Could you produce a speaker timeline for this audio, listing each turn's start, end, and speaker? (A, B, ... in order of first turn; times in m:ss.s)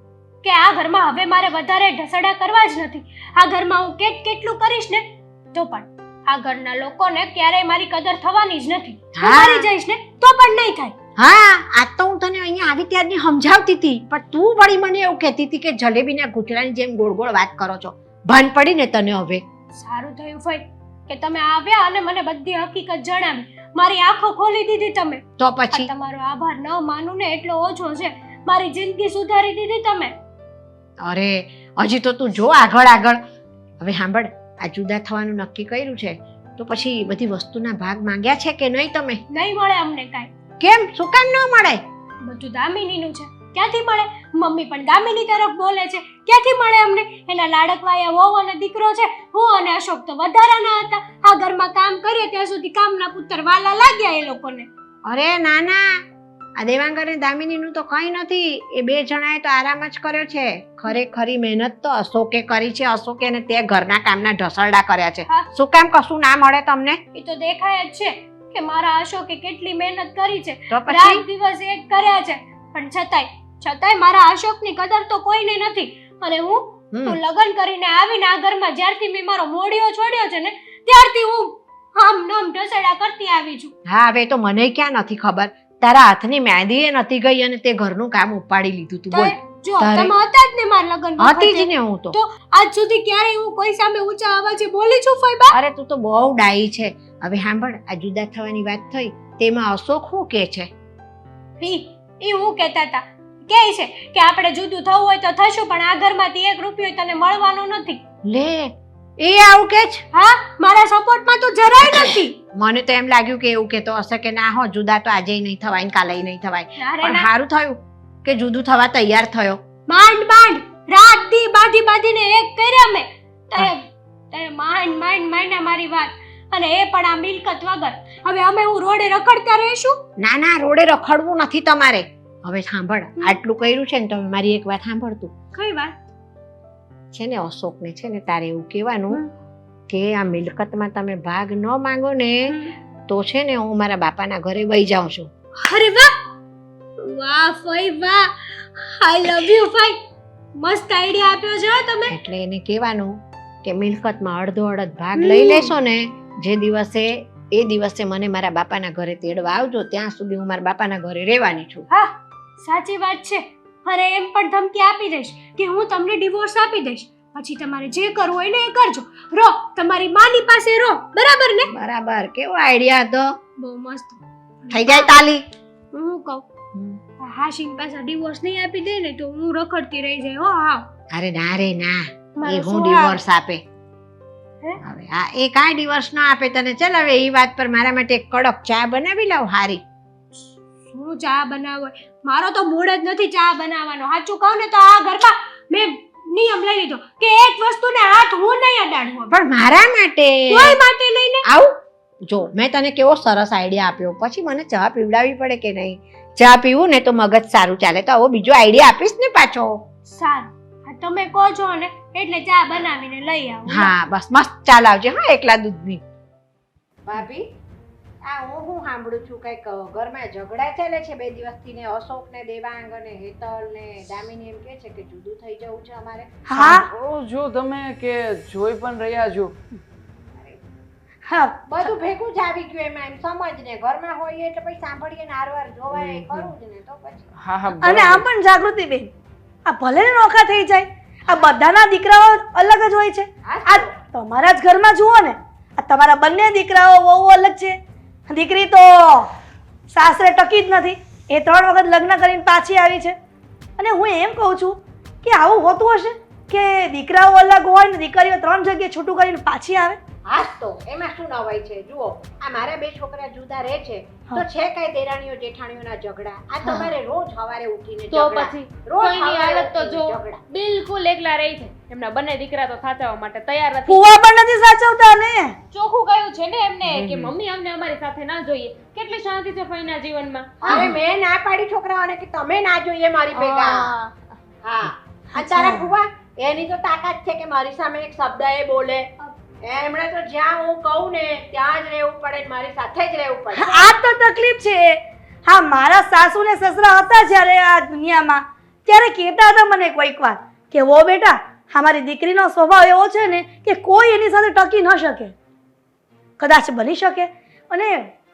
0:00.4-0:10.9 A
0:09.1-0:09.7 B
0:11.2-0:19.4 B
0:19.8-0:30.1 A
0:25.4-0:25.9 B
0:31.0-0:33.2 B
0:33.8-0:39.2 B
0:39.3-0:40.3 A
0:40.6-0:41.8 B
0:42.2-0:54.7 A
0:55.0-0:56.0 B
0:56.6-1:07.0 B
1:07.1-1:23.7 A
1:10.7-1:11.2 B
1:16.9-1:17.2 B
1:23.9-1:30.1 B
1:29.1-1:35.6 A
1:31.2-1:32.2 B
1:35.5-1:40.7 B
1:41.6-1:48.0 A
1:48.2-1:50.0 B
1:50.1-1:52.4 A
1:51.9-1:59.6 B
1:56.8-1:57.3 A
1:59.9-2:10.0 A
2:10.2-2:15.3 B
2:15.5-2:15.9 A
2:17.1-2:19.2 B
2:19.9-2:22.5 B
2:23.1-2:25.3 B
2:25.6-2:26.1 A
2:27.0-2:30.0 A
2:30.6-2:32.2 A
2:32.1-2:41.8 B
2:35.2-2:35.7 A
2:41.9-2:51.7 A
2:51.7-2:53.4 B
2:53.6-2:55.2 A
2:54.7-2:55.5 B
2:55.9-2:56.4 A
2:57.2-3:00.9 A
3:01.1-3:03.6 B
3:02.4-3:03.2 A
3:04.8-3:09.8 B
3:10.9-3:19.3 A
3:19.3-3:20.8 B
3:20.5-3:21.4 A
3:21.4-3:29.8 B
3:30.1-3:33.9 A
3:33.7-3:36.0 B
3:37.0-3:37.4 B
3:38.2-3:46.3 B
3:46.5-3:46.9 C
3:46.6-3:49.6 D
3:51.3-3:51.6 C
3:51.7-3:57.3 B
3:57.4-3:58.2 D
3:57.8-3:59.1 C
3:59.7-4:07.8 C
4:03.4-4:03.9 B
4:08.3-4:09.3 C
4:09.9-4:13.2 C
4:13.8-4:20.0 C
4:20.3-4:30.4 B
4:28.1-4:34.1 E
4:33.9-4:35.6 C
4:35.7-4:40.9 E
4:37.0-4:37.3 B
4:40.6-4:43.9 B
4:43.3-4:44.1 E
4:44.6-4:49.1 B
4:45.4-4:45.8 C
4:49.6-4:53.9 B
4:53.6-5:05.3 C
5:06.4-5:08.1 C